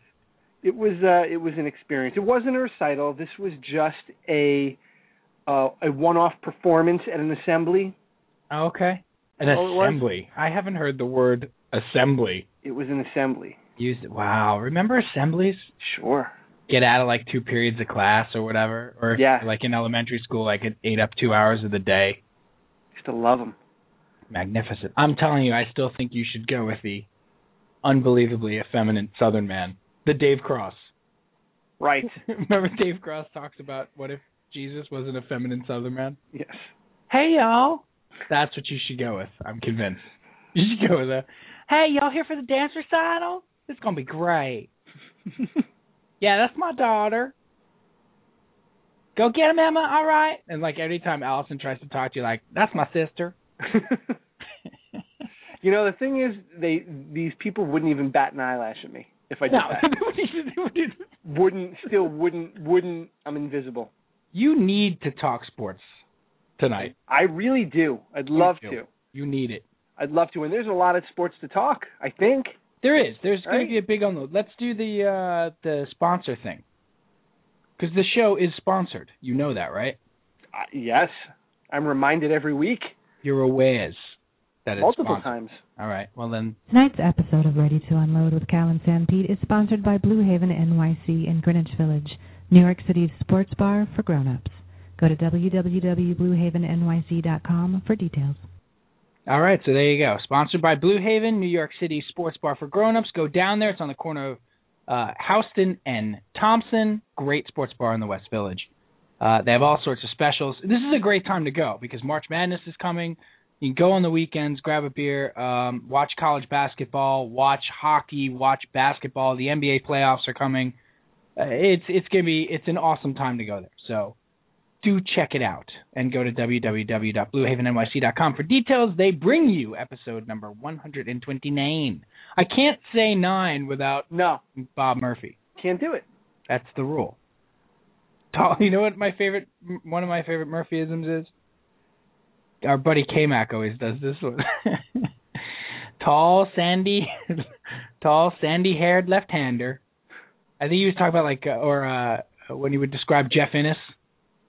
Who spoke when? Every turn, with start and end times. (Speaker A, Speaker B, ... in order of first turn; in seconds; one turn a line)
Speaker A: 0.6-4.8
Speaker A: 5.5-7.9
Speaker B: 8.5-12.4
Speaker A: 9.4-10.0
Speaker A: 12.6-13.6
Speaker B: 13.8-15.7
Speaker A: 15.8-16.3
Speaker B: 16.7-22.2
Speaker A: 19.1-19.5
Speaker A: 22.9-23.6
Speaker B: 24.3-27.1
Speaker B: 27.8-30.9
Speaker A: 31.8-32.1
Speaker B: 32.0-36.2
Speaker A: 36.3-36.7
Speaker B: 37.1-44.7
Speaker B: 46.2-47.3
Speaker B: 49.1-53.4
Speaker A: 53.7-54.0
Speaker A: 55.6-59.9
Speaker B: 59.5-61.1
Speaker A: 61.2-63.9
Speaker B: 64.3-66.0
Speaker B: 66.6-66.9
Speaker A: 66.9-68.9
Speaker B: 68.3-69.6
Speaker A: 70.0-72.5
Speaker B: 72.8-76.6
Speaker A: 73.4-73.7
Speaker B: 77.8-80.0
Speaker A: 80.5-82.9
Speaker B: 83.2-86.6
Speaker A: 84.8-85.6
Speaker C: 86.7-98.4
Speaker B: 99.3-108.7
Speaker B: 109.2-120.8
Speaker B: 121.4-124.2
Speaker B: 124.8-135.3
Speaker A: 134.1-134.4
Speaker A: 135.6-136.1
Speaker B: 136.5-137.2
Speaker B: 138.3-141.3
Speaker B: 142.6-145.1
Speaker B: 146.0-147.5
Speaker B: 148.0-149.8
Speaker B: 150.6-153.9